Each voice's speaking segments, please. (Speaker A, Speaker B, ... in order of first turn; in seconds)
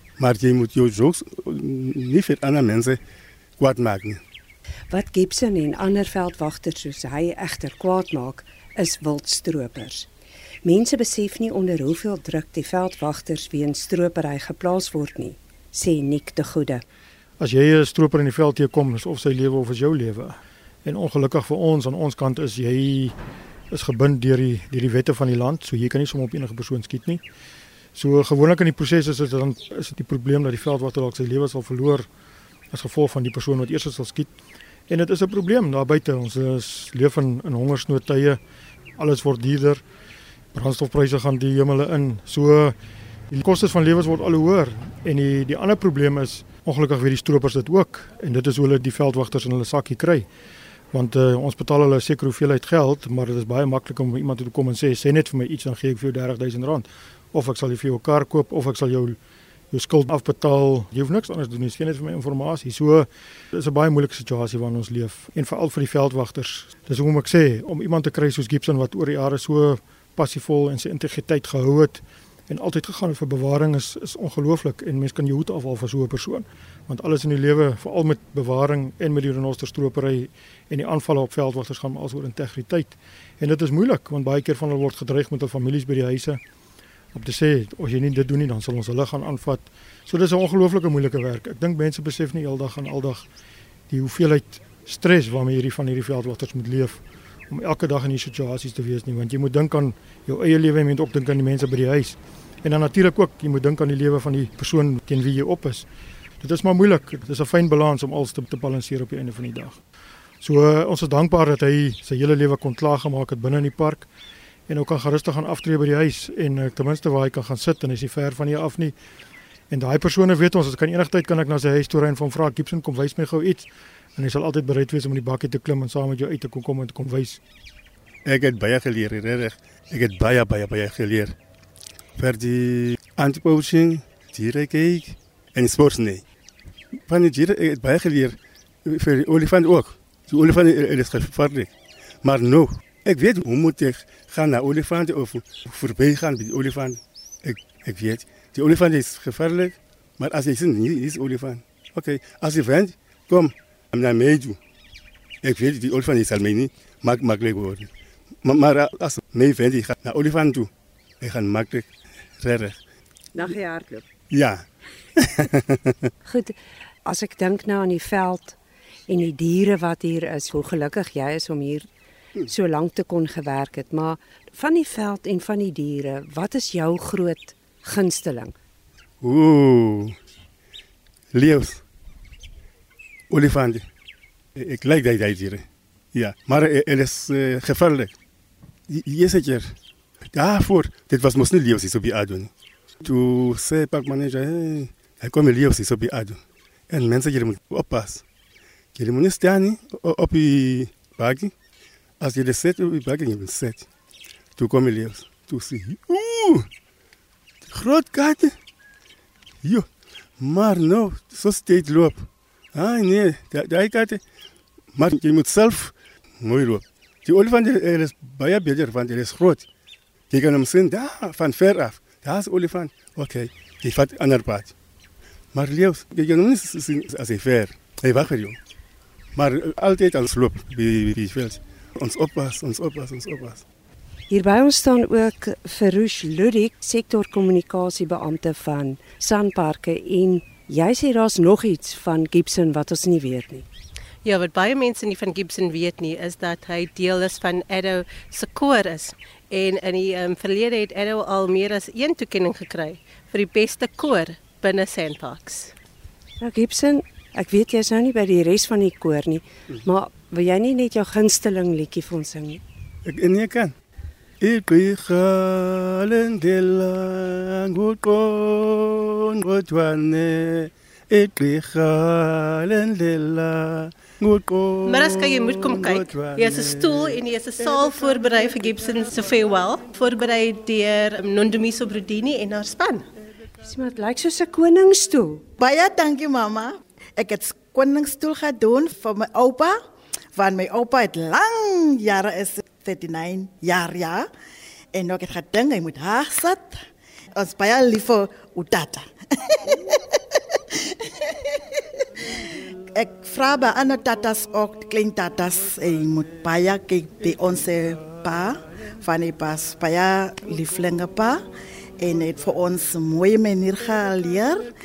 Speaker A: 0.2-3.0, 3.6-4.2, 128.2-131.3, 132.2-136.2, 137.1-141.7, 142.2-154.6, 155.4-157.9, 158.4-160.7, 161.2-162.8, 164.3-164.7, 165.2-166.1, 179.2-180.2, 181.3-181.8, 183.3-183.9, 184.6-188.1, 188.9-189.8, 190.3-192.5, 193.0-196.4, 196.9-198.2, 198.9-201.5, 202.2-203.9, 204.6-206.7, 207.7-208.6, 209.6-209.9, 210.4-214.2, 214.9-219.7, 220.3-224.7, 225.5-228.6, 229.3-233.6, 263.0-263.7, 264.4-277.2
Speaker B: 4.9-10.1, 10.6-16.8, 163.3-164.1, 166.2-168.6, 169.1-171.9, 172.4-178.5, 234.3-243.7, 256.4-262.6, 283.6-285.4
Speaker C: 17.4-23.1, 23.7-27.2, 27.9-32.1, 32.7-34.3, 34.9-38.4, 39.0-39.8, 40.5-42.7, 43.3-50.2, 50.9-59.2, 59.7-86.4, 87.1-93.3, 93.9-105.9, 106.4-109.8, 110.4-114.1, 114.7-118.9, 119.7-127.4
Speaker D: 244.2-255.7, 274.8-283.0
Speaker E: 285.6-289.8, 290.3-294.3, 294.9-296.8, 297.4-301.8, 302.4-311.4, 312.0-314.7